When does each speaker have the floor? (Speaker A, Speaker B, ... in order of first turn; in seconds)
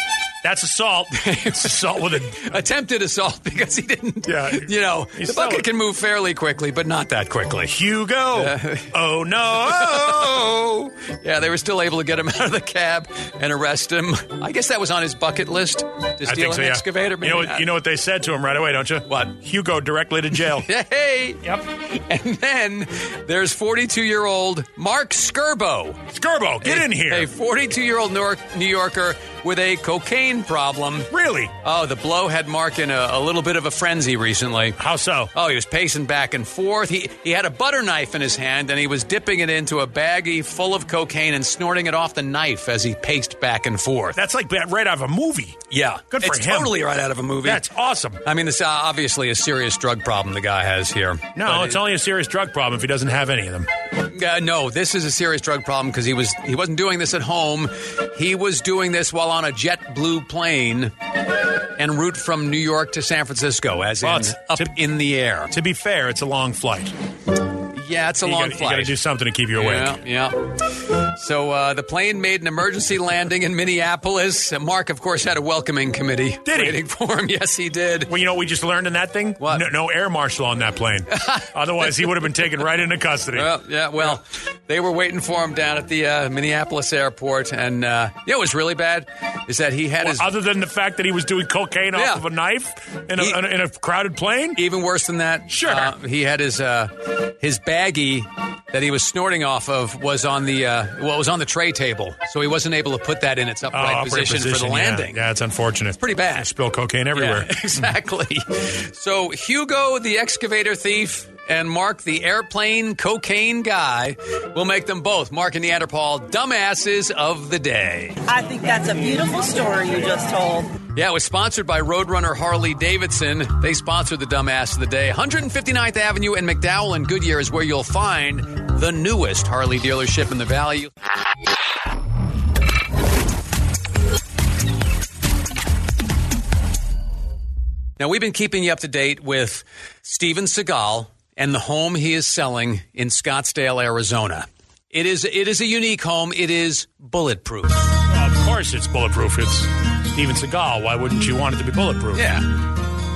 Speaker A: 0.4-2.6, 4.2-5.7, 7.7-10.5, 16.2-20.7, 26.1-27.3, 31.1-31.5, 34.8-35.3, 44.1-46.8, 47.4-48.2, 51.3-53.7, 64.0-64.8, 65.5-66.9, 68.2-70.0, 76.4-76.8, 78.1-84.2, 90.0-94.6, 95.5-95.9, 103.7-107.8, 148.1-152.2
Speaker B: 1.1-7.8, 8.3-8.9, 9.5-17.6, 19.1-19.3, 20.5-26.0, 26.6-31.1, 31.6-34.8, 35.3-44.2, 45.7-47.6, 48.2-51.8, 54.0-60.9, 61.8-65.5, 67.7-69.0, 69.5-78.1, 79.4-79.7, 81.1-82.1, 83.3-90.2, 91.9-92.2, 94.5-105.2, 106.0-106.5, 107.1-118.2, 120.9-130.9, 138.0-147.9, 152.1-152.4
Speaker C: 118.3-120.7